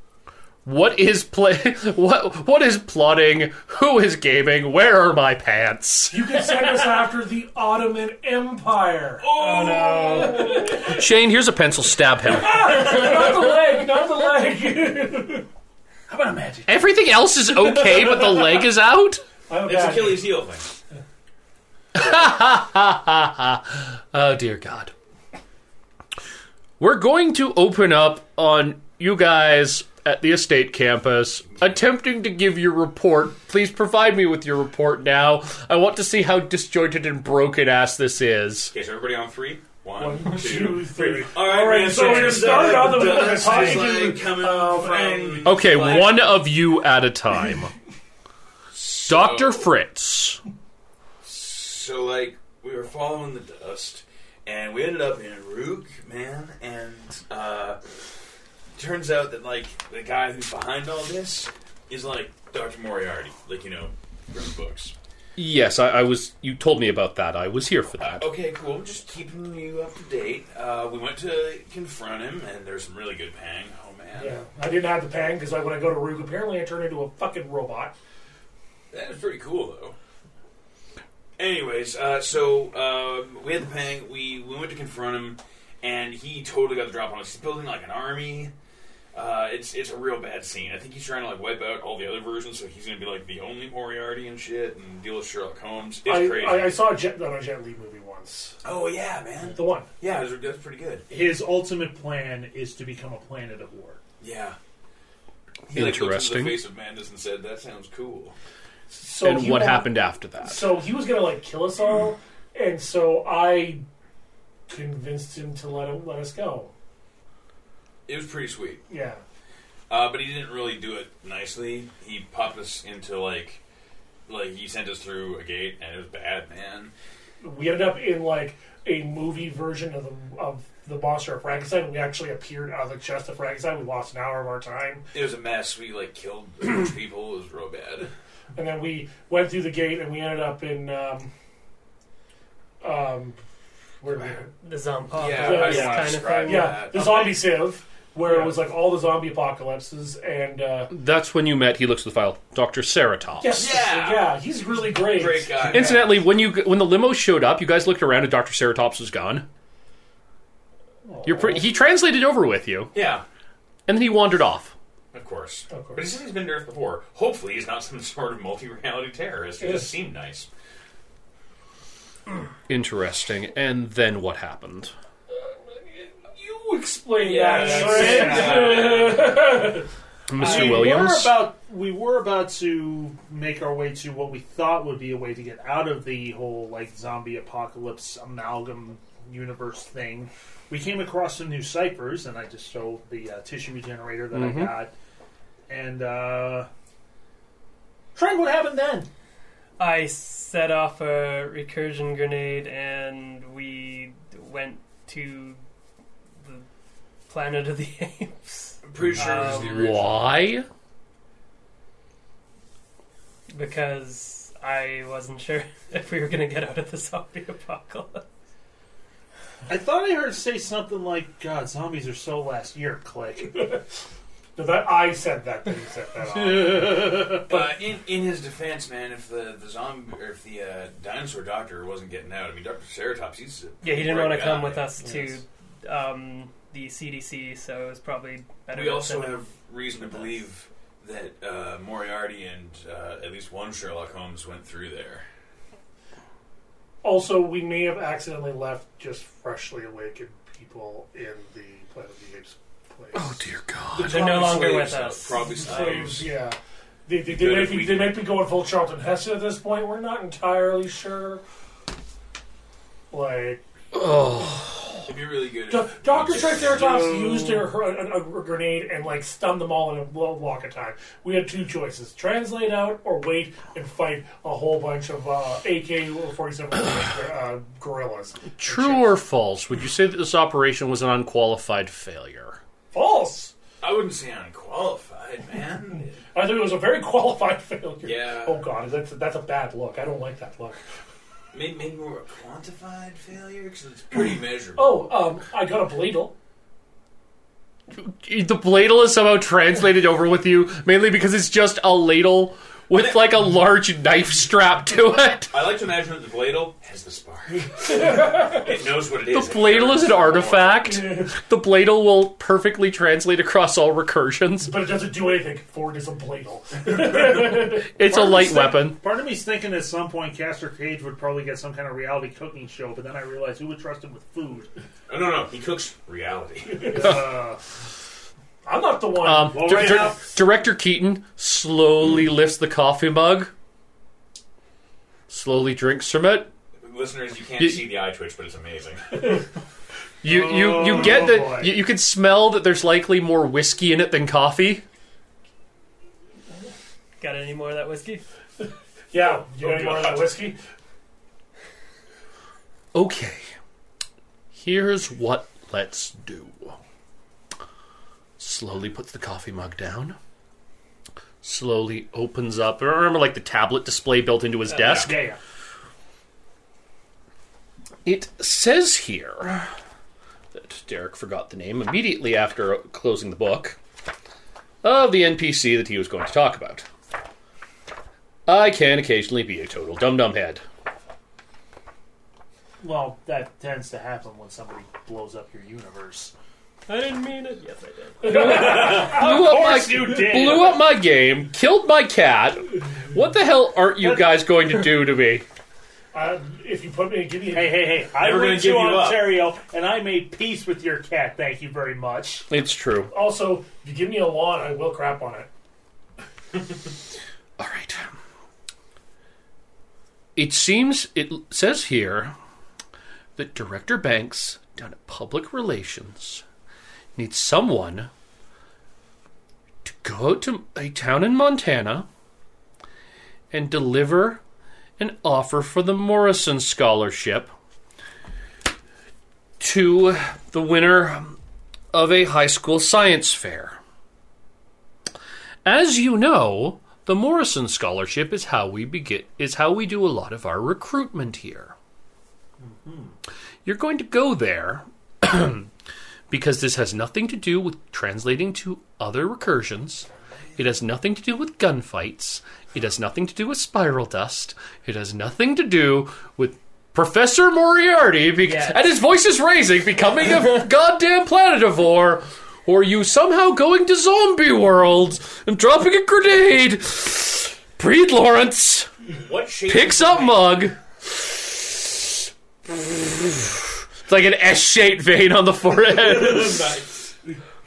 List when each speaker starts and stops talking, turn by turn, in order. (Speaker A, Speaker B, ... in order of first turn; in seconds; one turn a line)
Speaker A: 0.7-6.3
Speaker B: 6.1-9.3
Speaker C: 9.2-10.8
Speaker D: 9.3-10.7
Speaker B: 10.2-11.0
Speaker A: 10.7-13.0
Speaker B: 12.3-15.5
Speaker E: 16.1-16.7
Speaker A: 16.7-19.2
Speaker B: 19.5-20.3
Speaker C: 19.6-20.7
Speaker A: 21.9-24.9
Speaker A: 26.8-38.7
Speaker C: 38.7-46.4
Speaker B: 40.0-46.2
Speaker E: 41.0-41.3
Speaker A: 45.5-47.7
Speaker C: 48.7-49.7
Speaker A: 49.0-50.4
Speaker C: 51.2-57.8
Speaker C: 58.8-64.9
Speaker A: 65.4-68.3
Speaker C: 68.1-74.4
Speaker B: 74.2-78.0
Speaker C: 78.9-80.0
Speaker C: 81.4-88.5
Speaker C: 89.1-96.8
Speaker B: 96.1-98.5
Speaker C: 98.6-101.0
Speaker B: 99.5-99.9
Speaker E: 101.1-104.0
Speaker C: 104.2-104.6
Speaker C: 105.7-108.3
Speaker A: 105.7-106.6
Speaker B: 108.9-109.9
Speaker A: 109.2-110.7
Speaker B: 110.4-113.8
Speaker B: 114.7-116.7
Speaker C: 118.1-118.8
Speaker B: 118.9-119.2
Speaker C: 119.9-123.6
Speaker C: 124.3-126.9
Speaker B: 127.4-135.0
Speaker C: 135.1-138.1
Speaker B: 138.6-141.3
Speaker B: 142.8-143.4
Speaker B: 144.0-144.5
Speaker D: 144.6-146.9
Speaker C: 145.1-147.5
Speaker B: 145.4-150.9
Speaker A: 150.9-153.6
Speaker B: 153.4-156.2
Speaker C: 153.5-156.2
Speaker A: 155.7-159.5
Speaker B: 161.1-161.6
Speaker A: 161.2-162.9
Speaker C: 162.9-163.2
Speaker A: 163.9-164.7
Speaker C: 165.1-170.5
Speaker B: 165.7-166.0
Speaker B: 169.6-169.9
Speaker A: 172.7-174.9
Speaker B: 176.2-179.9
Speaker C: 177.2-179.6
Speaker E: 177.4-178.9
Speaker A: 180.3-181.4
Speaker E: 180.3-194.9
Speaker A: 194.3-194.7
Speaker E: 195.7-196.7
Speaker E: 198.2-199.1
Speaker D: 199.8-205.6
Speaker D: 206.4-206.7
Speaker D: 207.3-209.9
Speaker C: 208.8-210.2
Speaker A: 209.2-210.7
Speaker D: 213.5-218.2
Speaker E: 219.7-223.7
Speaker B: 224.6-227.7
Speaker C: 226.9-234.9
Speaker D: 233.8-239.5
Speaker B: 235.1-235.4
Speaker C: 238.7-245.2
Speaker D: 240.0-240.3
Speaker B: 247.0-253.4
Speaker A: 253.1-254.2
Speaker C: 253.9-256.3
Speaker D: 254.0-255.5
Speaker B: 255.6-261.4
Speaker C: 257.3-258.2
Speaker B: 263.1-263.6
Speaker A: 263.9-265.0
Speaker C: 265.1-267.6
Speaker B: 265.7-279.2
Speaker A: 278.6-282.6
Speaker B: 282.9-283.5
Speaker C: 283.8-286.1
Speaker B: 286.3-290.8
Speaker C: 288.0-288.6
Speaker C: 291.5-295.1
Speaker B: 294.8-296.3
Speaker A: 297.9-305.6
Speaker C: 302.9-303.3
Speaker C: 305.5-310.9
Speaker B: 307.8-308.6
Speaker A: 309.3-314.8
Speaker B: 311.0-311.3
Speaker B: 314.6-317.9
Speaker A: 317.9-319.0
Speaker E: 318.1-324.7
Speaker C: 325.1-327.0
Speaker B: 326.8-327.2
Speaker E: 326.9-327.6
Speaker B: 328.6-330.1
Speaker A: 329.2-333.5
Speaker E: 329.5-330.2
Speaker A: 335.3-336.5
Speaker C: 336.8-339.4
Speaker A: 337.6-337.8
Speaker A: 340.2-344.8
Speaker E: 340.2-341.8
Speaker D: 347.2-348.2
Speaker B: 349.1-350.6
Speaker C: 349.6-350.4
Speaker A: 352.9-353.5
Speaker A: 354.5-356.8
Speaker A: 358.4-360.2
Speaker A: 361.4-365.2
Speaker E: 364.7-365.4
Speaker A: 368.1-369.7
Speaker A: 370.5-373.8
Speaker A: 374.8-376.9
Speaker A: 378.5-380.6
Speaker E: 382.8-386.3
Speaker D: 386.9-388.9
Speaker E: 388.2-390.8
Speaker A: 388.4-395.5
Speaker E: 394.0-394.3
Speaker B: 396.1-397.9
Speaker E: 397.5-402.5
Speaker C: 398.2-399.4
Speaker A: 402.5-403.1
Speaker B: 403.1-405.5
Speaker A: 407.6-408.1
Speaker A: 410.4-412.4
Speaker A: 413.4-416.4
Speaker A: 417.2-418.1
Speaker A: 419.8-422.1
Speaker A: 423.5-424.4
Speaker A: 425.0-427.5
Speaker A: 429.6-431.4
Speaker A: 431.9-433.8
Speaker A: 435.6-441.7
Speaker E: 442.6-443.1
Speaker A: 443.6-445.7
Speaker A: 446.3-468.9
Speaker C: 469.2-470.7
Speaker A: 469.7-476.7
Speaker C: 476.0-477.1